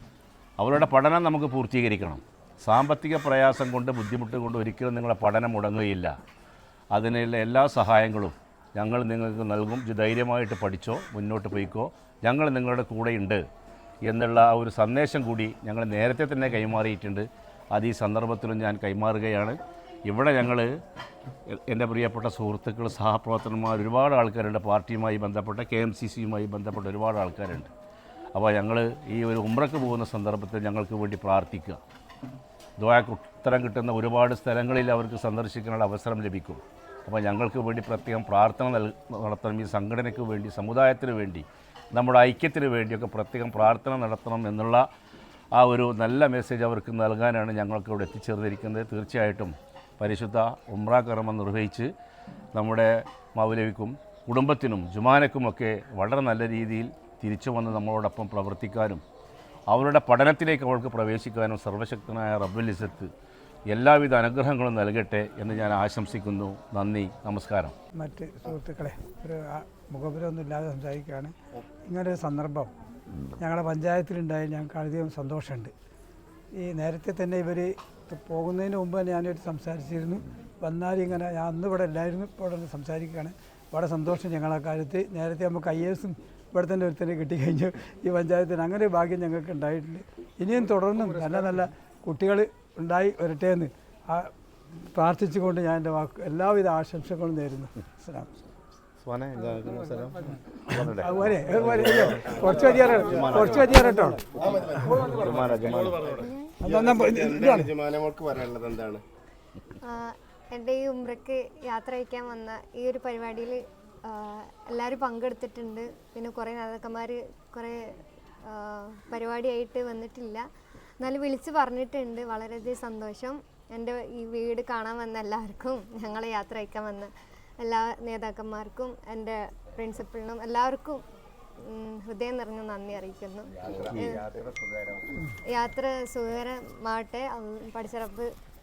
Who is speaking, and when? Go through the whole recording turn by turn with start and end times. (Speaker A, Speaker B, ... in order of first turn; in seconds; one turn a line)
Speaker A: 0.6-6.2
Speaker A: 6.9-13.4
Speaker A: 14.0-20.7
Speaker A: 21.5-27.7
Speaker A: 28.3-31.8
Speaker A: 32.8-44.8
Speaker A: 45.5-51.9
Speaker A: 52.5-59.0
Speaker A: 59.7-63.1
Speaker A: 63.7-67.7
Speaker B: 67.9-71.3
Speaker B: 71.8-72.7
Speaker B: 73.4-75.7
Speaker B: 76.5-94.3
Speaker B: 94.9-98.4
Speaker A: 99.0-102.2
Speaker B: 100.7-104.2
Speaker C: 102.2-102.5
Speaker A: 103.0-103.8
Speaker C: 104.3-105.9
Speaker B: 104.8-105.1
Speaker A: 104.9-106.2
Speaker D: 106.1-106.6
Speaker B: 106.6-107.7
Speaker C: 106.6-109.0
Speaker D: 109.8-120.5
Speaker D: 121.0-131.0
Speaker D: 131.6-134.3
Speaker C: 133.6-134.4
Speaker D: 135.5-138.3